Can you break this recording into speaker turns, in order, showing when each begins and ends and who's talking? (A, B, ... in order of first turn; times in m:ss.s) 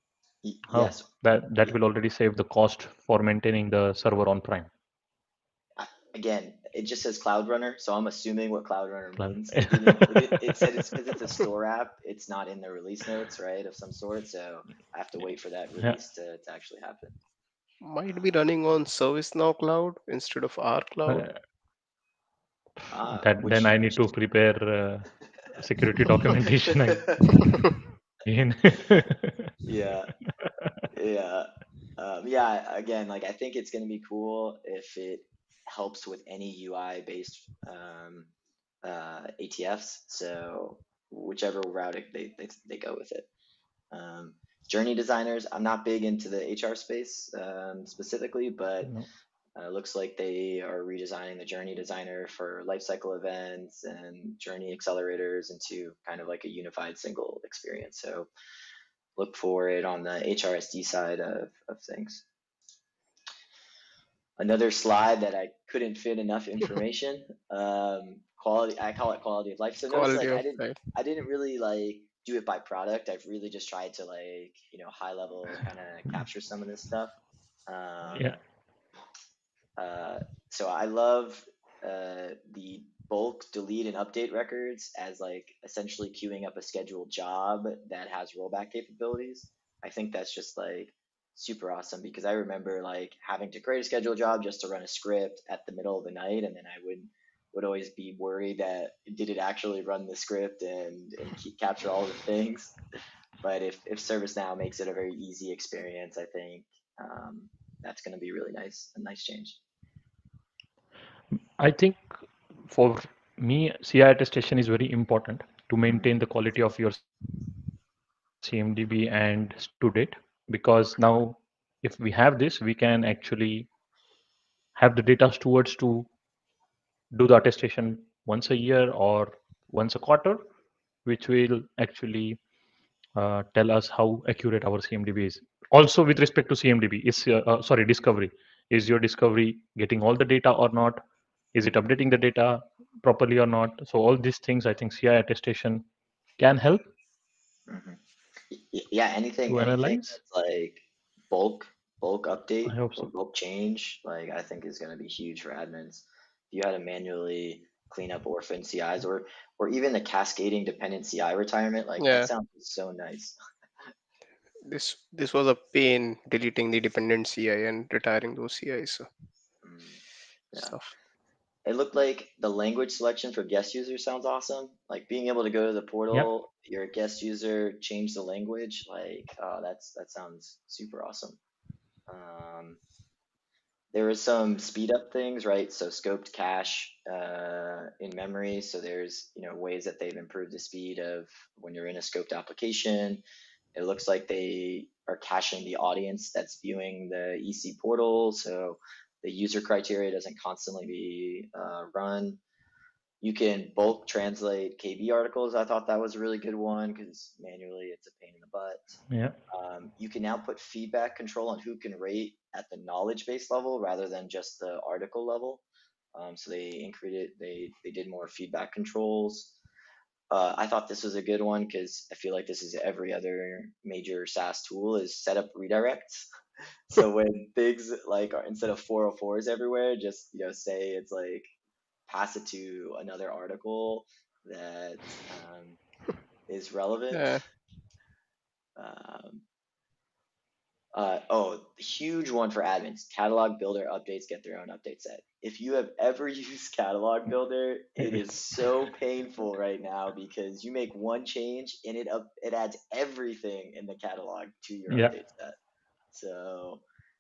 0:00.4-0:01.1 A
0:00.7-0:04.7 B
0:05.8-0:17.2 A
0:09.2-0:10.7 B
0:17.8-0:21.3 C
0:21.1-0:21.3 B
0:22.9-0:24.2 A
0:23.1-0:27.5 B
0:26.9-0:27.5 A
0:28.3-0:29.5 B
0:29.6-0:30.1 A
0:30.4-0:30.7 B
0:30.9-0:38.3 A
0:38.8-0:43.3 A
0:43.9-0:48.9 A
0:49.6-0:58.3 A
0:59.2-1:02.2 A
1:04.4-1:17.2 A
1:09.9-1:10.8 C
1:17.7-1:18.4 A
1:19.8-1:42.8 A
1:43.4-1:49.6 A
1:51.6-1:52.2 B
1:52.7-1:57.0 B
1:55.8-1:56.1 A
1:58.4-2:03.7 B
2:04.8-2:06.1 B
2:07.1-2:10.4 B
2:11.1-2:12.4 B
2:13.2-2:21.0 B
2:21.5-2:25.9 B
2:26.4-2:26.9 B
2:27.7-2:43.4 A
2:29.5-2:30.2 B
2:32.7-2:33.1 B
2:42.0-2:42.3 C
2:44.6-2:49.1 C
2:49.6-2:50.0 A
2:50.6-2:50.9 C
2:51.6-3:01.4 A
3:02.1-3:02.8 A
3:03.9-3:13.2 A
3:13.8-3:22.4 A
3:23.2-3:28.9 A
3:29.1-3:29.4 B
3:29.5-3:35.6 A
3:36.2-3:39.6 A
3:40.3-3:46.3 A
3:46.9-3:51.5 A
3:52.1-3:55.8 A
3:56.5-3:57.4 A
3:57.1-3:57.4 C
3:58.8-3:59.4 A
4:00.9-4:15.6 A
4:08.0-4:08.3 B
4:16.1-4:16.8 A